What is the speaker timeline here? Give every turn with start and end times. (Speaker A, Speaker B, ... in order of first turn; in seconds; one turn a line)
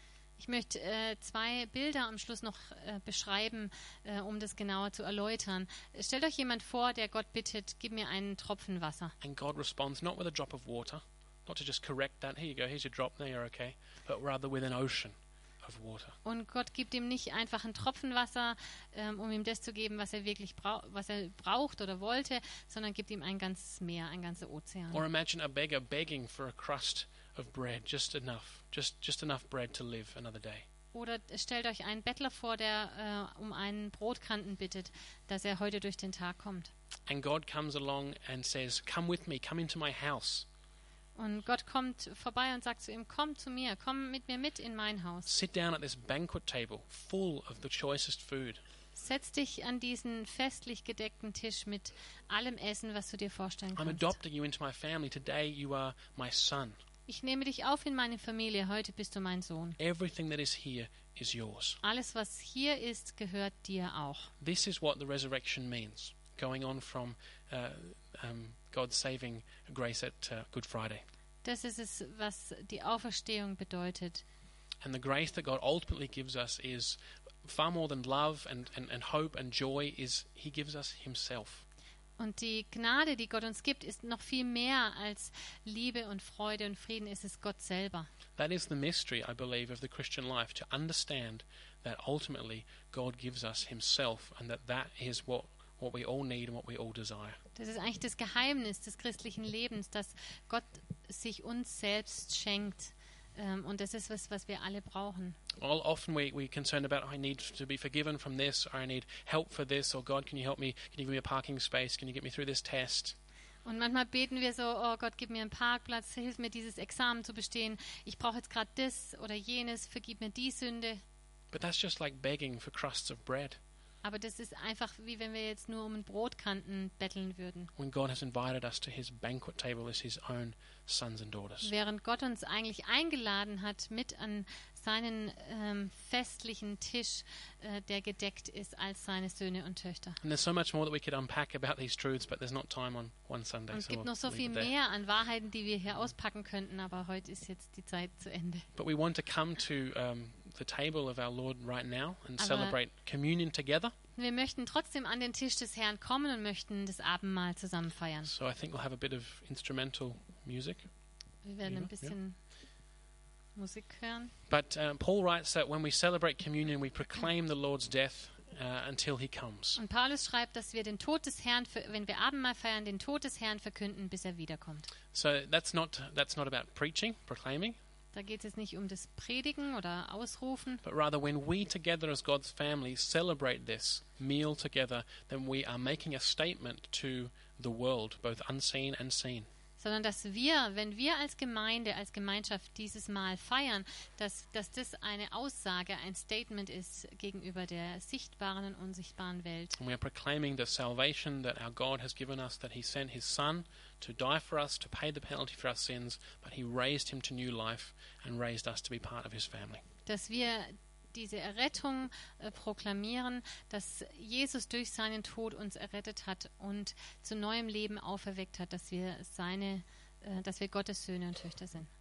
Speaker A: 0.4-9.2
Speaker B: 9.2-16.2
Speaker A: 16.2-25.0
Speaker B: 24.9-30.7
Speaker A: 30.9-36.7
Speaker B: 37.1-40.5
Speaker A: 41.1-45.3
Speaker B: 45.3-48.6
Speaker A: 49.0-54.2
Speaker B: 53.8-56.8
Speaker A: 57.1-59.8
Speaker B: 59.8-61.8
Speaker A: 61.8-64.3
Speaker B: 64.4-71.0
Speaker A: 71.4-74.2
Speaker B: 74.8-81.7
Speaker A: 82.2-88.1
Speaker B: 88.4-97.4
Speaker A: 97.6-105.4
Speaker B: 105.6-113.2
Speaker A: 113.7-121.0
Speaker B: 121.5-123.6
Speaker A: 124.0-127.7
Speaker B: 127.8-131.7
Speaker A: 131.6-140.2
Speaker B: 140.2-144.7
Speaker A: 143.7-148.7
Speaker B: 148.8-153.9
Speaker A: 152.4-152.8
Speaker A: 154.2-158.3
Speaker B: 158.2-160.9
Speaker A: 161.4-162.4
Speaker B: 161.7-162.1
Speaker A: 163.6-164.3
Speaker B: 164.5-169.8
Speaker A: 169.8-174.9
Speaker B: 175.1-177.8
Speaker A: 178.1-180.8
Speaker B: 180.8-189.5
Speaker A: 189.8-199.8
Speaker B: 199.8-209.8
Speaker A: 210.1-221.9